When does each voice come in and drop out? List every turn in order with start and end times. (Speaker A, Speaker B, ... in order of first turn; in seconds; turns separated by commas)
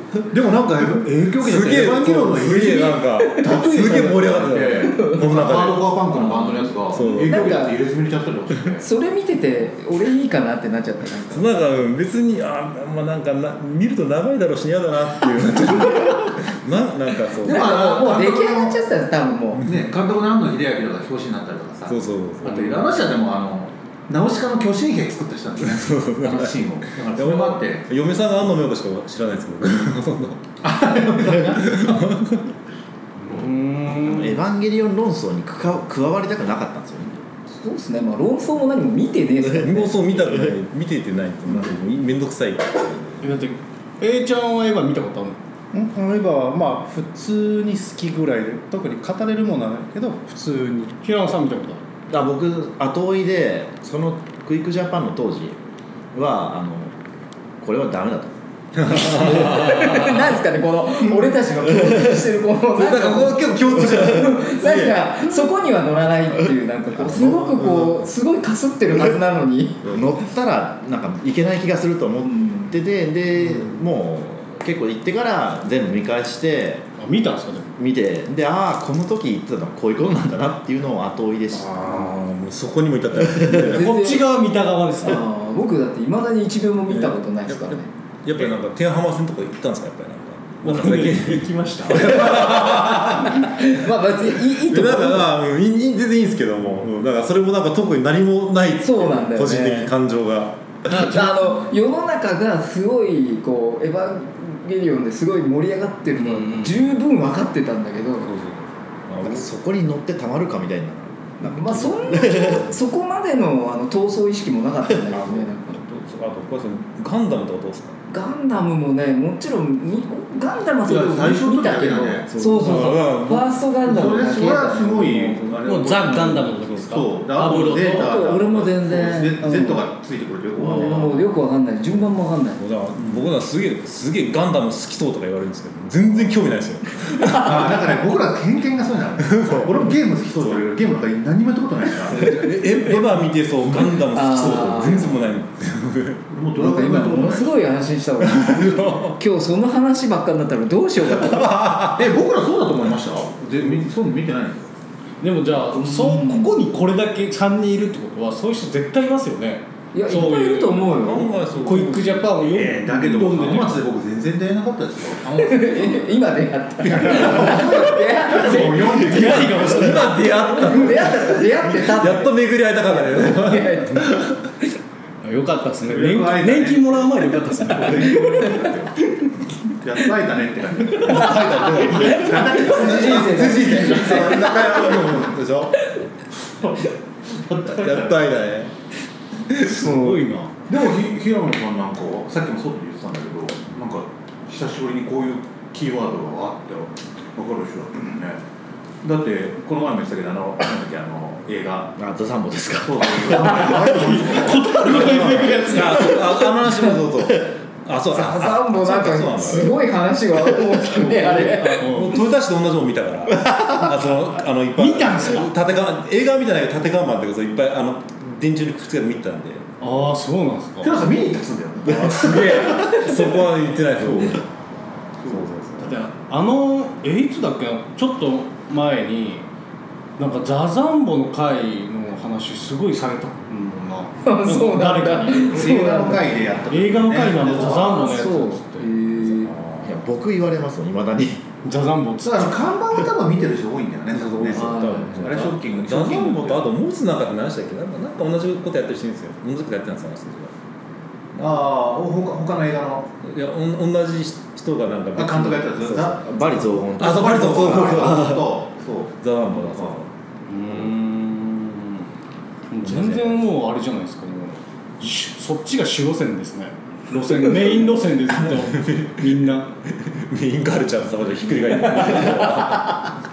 Speaker A: 0.2-8.9, Speaker B: 1.4-5.9, Speaker C: 3.3-3.7, Speaker C: 6.1-7.8, Speaker B: 6.9-7.6, Speaker C: 8.8-11.5, Speaker B: 11.3-17.9, Speaker A: 17.4-18.8, Speaker C: 17.4-19.6, Speaker A: 19.6-27.9, Speaker B: 21.9-23.0, Speaker B: 25.6-30.4, Speaker A: 30.6-32.2, Speaker B: 31.4-32.5, Speaker D: 33.2-34.4, Speaker E: 33.9-37.2, Speaker C: 37.5-40.0, Speaker B: 39.5-43.4, Speaker E: 40.2-40.5, Speaker D: 43.2-45.4, Speaker F: 45.7-51.0, Speaker D: 51.0-51.8, Speaker E: 52.1-55.6, Speaker E: 56.1-56.9, Speaker E: 57.6-58.4, Speaker B: 58.8-60.1, Speaker C: 58.9-69.8, Speaker E: 58.9-59.6, Speaker E: 61.9-62.1, Speaker B: 62.7-65.1, Speaker B: 67.0-68.1, Speaker E: 69.8-76.8, Speaker C: 72.2-72.7, Speaker D: 77.0-77.7, Speaker E: 77.8-81.8, Speaker B: 81.7-84.0, Speaker E: 83.2-83.6, Speaker D: 83.6-85.2, Speaker C: 83.7-84.3, Speaker C: 85.0-87.9, Speaker B: 86.9-93.8, Speaker D: 90.6-92.6, Speaker C: 93.0-95.3, Speaker B: 94.5-101.2, Speaker C: 98.8-99.9, Speaker D: 100.9-101.6, Speaker C: 100.9-108.3, Speaker D: 106.2-106.8, Speaker B: 108.2-109.5, Speaker E: 109.2-112.7, Speaker C: 111.4-115.8, Speaker B: 115.1-118.0, Speaker C: 118.1-125.5, Speaker A: 120.8-122.3, Speaker B: 122.3-123.5, Speaker A: 123.8-131.2, Speaker D: 125.7-128.1, Speaker C: 127.5-129.8, Speaker C: 130.6-132.6, Speaker B: 132.6-137.8, Speaker A: 137.3-142.5, Speaker B: 139.2-140.6, Speaker B: 142.1-146.2, Speaker C: 144.1-145.2, Speaker A: 146.3-147.6, Speaker C: 146.6-151.7, Speaker B: 148.2-149.2, Speaker B: 151.2-152.0, Speaker A: 152.0-154.7, Speaker D: 155.2-160.9, Speaker C: 155.7-156.5, Speaker C: 159.9-161.4, Speaker B: 160.9-162.4, Speaker D: 161.6-163.8, Speaker A: 162.5-166.2, Speaker C: 165.3-169.2, Speaker A: 166.8-170.1, Speaker B: 167.1-167.4, Speaker D: 169.0-170.2, Speaker B: 169.2-174.4, Speaker C: 170.6-172.3, Speaker C: 172.9-174.2, Speaker D: 175.2-178.5, Speaker A: 175.9-179.1, Speaker A: 179.7-184.5, Speaker B: 181.0-185.9, Speaker C: 181.2-184.9, Speaker A: 186.6-188.3, Speaker B: 187.6-188.7, Speaker B: 189.5-190.0, Speaker C: 189.6-190.2, Speaker D: 189.6-190.5, Speaker A: 190.7-198.4, Speaker A: 199.0-201.9, Speaker E: 202.0-204.3, Speaker A: 202.8-205.7, Speaker D: 203.6-206.5, Speaker B: 204.9-209.8, Speaker C: 208.1-211.9, Speaker B: 211.0-219.7, Speaker D: 211.6-212.2, Speaker E: 213.4-213.8, Speaker D: 214.8-215.5, Speaker D: 219.8-221.1, Speaker A: 220.8-223.3, Speaker B: 221.9-224.4, Speaker A: 224.0-224.4, Speaker B: 225.3-226.0, Speaker D: 225.8-229.4, Speaker D: 230.2-235.7, Speaker C: 234.2-236.2, Speaker A: 235.5-238.3, Speaker D: 236.7-238.9, Speaker C: 237.5-239.6, Speaker B: 239.4-240.0, Speaker E: 239.8-241.4, Speaker D: 241.6-242.6, Speaker A: 242.2-246.7, Speaker B: 244.1-250.5, Speaker C: 244.5-245.4, Speaker A: 251.4-253.1, Speaker B: 253.2-256.2, Speaker A: 255.2-260.0, Speaker E: 256.2-258.4, Speaker B: 257.0-258.5, Speaker B: 259.2-260.1, Speaker D: 260.5-262.1, Speaker D: 262.7-269.7, Speaker B: 262.8-263.4, Speaker B: 268.6-269.3, Speaker B: 269.9-273.1